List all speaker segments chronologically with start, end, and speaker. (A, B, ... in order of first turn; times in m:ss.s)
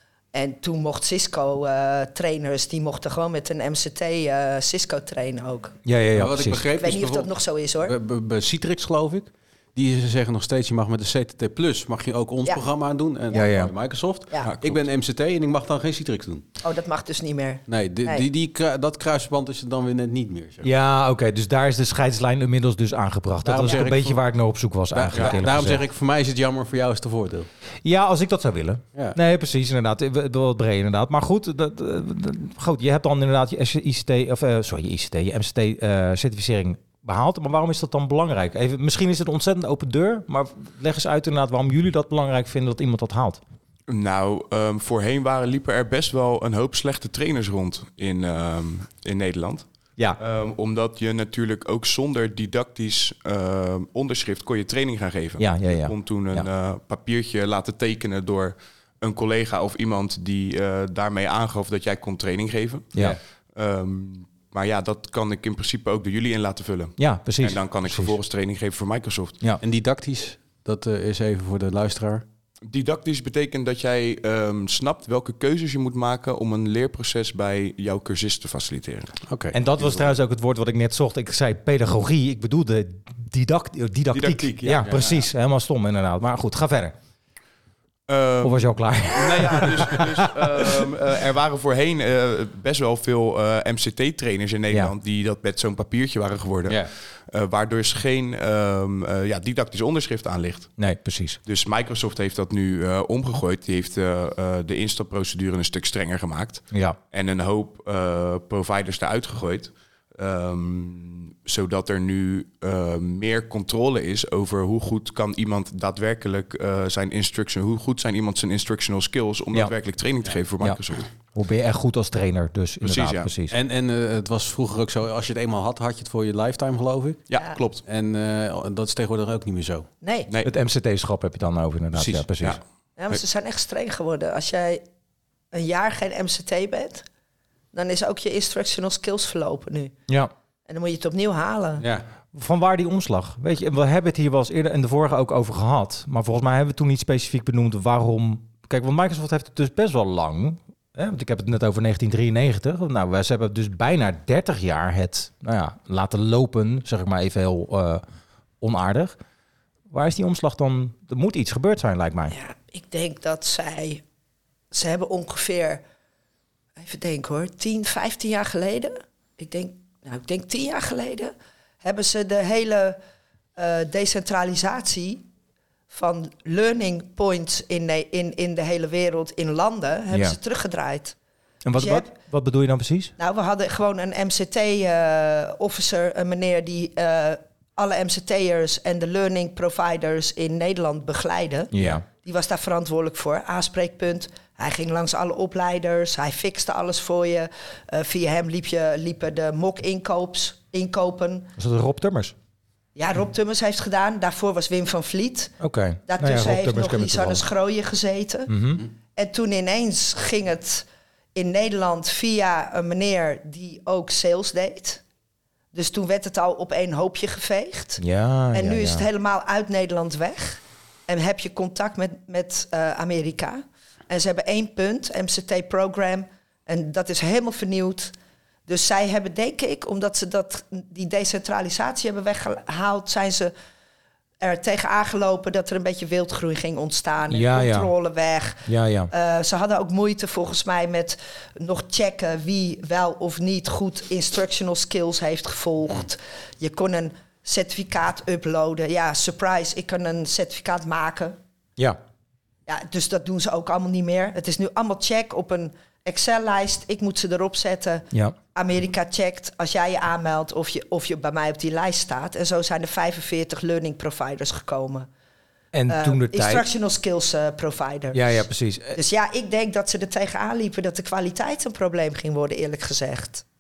0:00.3-0:05.8 A
0:05.8-0:06.6 B
0:06.2-0:07.3 C
0:06.8-0:07.9 A
0:07.8-0:16.5 C
0:13.3-0:13.7 B
0:14.4-0:14.8 D
0:16.6-0:18.3 A
0:17.7-0:20.7 C
0:20.6-0:25.8 B
0:23.4-0:24.2 C
0:24.9-0:27.5 C
0:27.8-0:43.4 B
0:43.9-0:49.7 D
0:50.2-1:09.4 D
0:55.4-0:56.5 B
1:07.0-1:08.2 B
1:09.6-1:12.2 C
1:12.7-1:19.2 D
1:19.3-1:19.6 C
1:19.5-1:26.9 B
1:24.1-1:24.9 D
1:24.8-1:25.2 C
1:28.1-1:40.8 D
1:28.4-1:30.8 B
1:40.8-1:41.4 B
1:41.4-2:01.1 D
1:46.7-1:47.0 B
2:01.3-2:03.6 B
2:02.8-2:03.3 D
2:03.5-2:07.3 C
2:07.3-2:07.8 D
2:07.8-2:09.9 C
2:10.0-2:10.3 A
2:10.4-2:12.6 B
2:12.0-2:12.2 C
2:13.0-2:14.8 A
2:15.5-2:17.1 A
2:17.7-2:19.9 A
2:20.7-2:21.8 A
2:22.3-2:38.0 B
2:38.6-2:39.2 B
2:39.9-2:42.3 B
2:42.3-2:44.0 A
2:44.7-2:45.8 A
2:46.8-2:53.0 A
2:53.6-2:55.2 A
2:55.9-3:01.2 A
3:00.1-3:00.4 B
3:01.6-3:03.1 B
3:01.8-3:02.1 A
3:03.2-3:21.5 A
3:11.7-3:12.0 B
3:21.6-3:22.4 B
3:23.0-3:25.5 A
3:25.6-3:27.4 B
3:26.1-3:28.5 A
3:28.5-3:28.8 B
3:29.2-3:35.0 A
3:35.7-3:48.1 A
3:38.0-3:39.1 B
3:48.7-3:53.5 A
3:54.4-4:11.4 A
3:57.3-3:57.9 B
3:58.7-3:59.1 B
4:12.7-4:25.1 A
4:25.7-4:26.7 B
4:25.9-4:33.4 A
4:28.1-4:29.0 B